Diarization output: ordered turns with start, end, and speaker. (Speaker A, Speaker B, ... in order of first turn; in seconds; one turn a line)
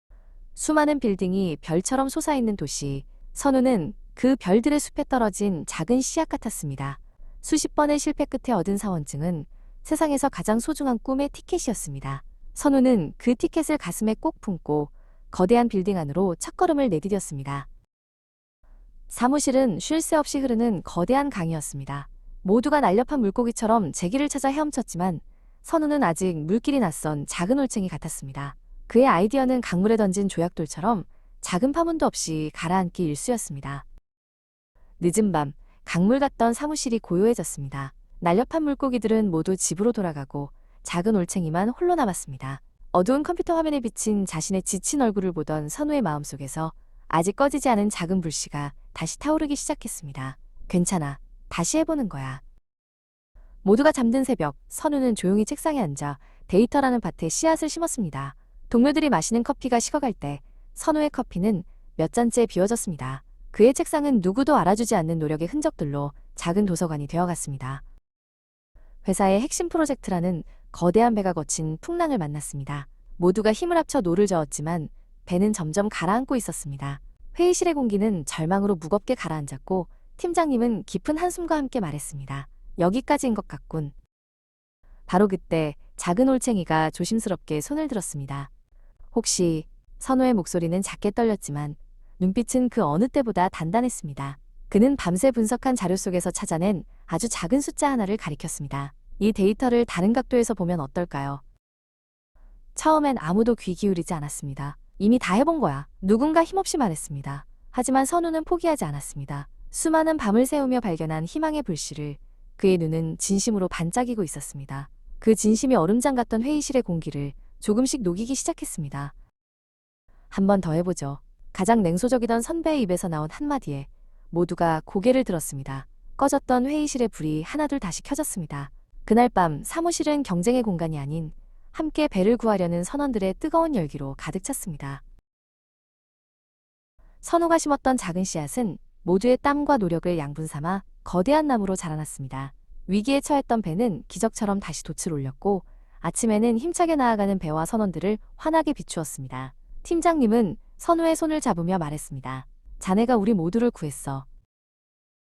Speaker A: 0.6-17.7
Speaker A: 19.1-33.9
Speaker A: 35.0-52.4
Speaker A: 53.6-67.8
Speaker A: 69.0-83.9
Speaker A: 85.1-88.5
Speaker A: 89.1-101.4
Speaker A: 102.8-119.1
Speaker A: 120.3-135.0
Speaker A: 137.2-154.3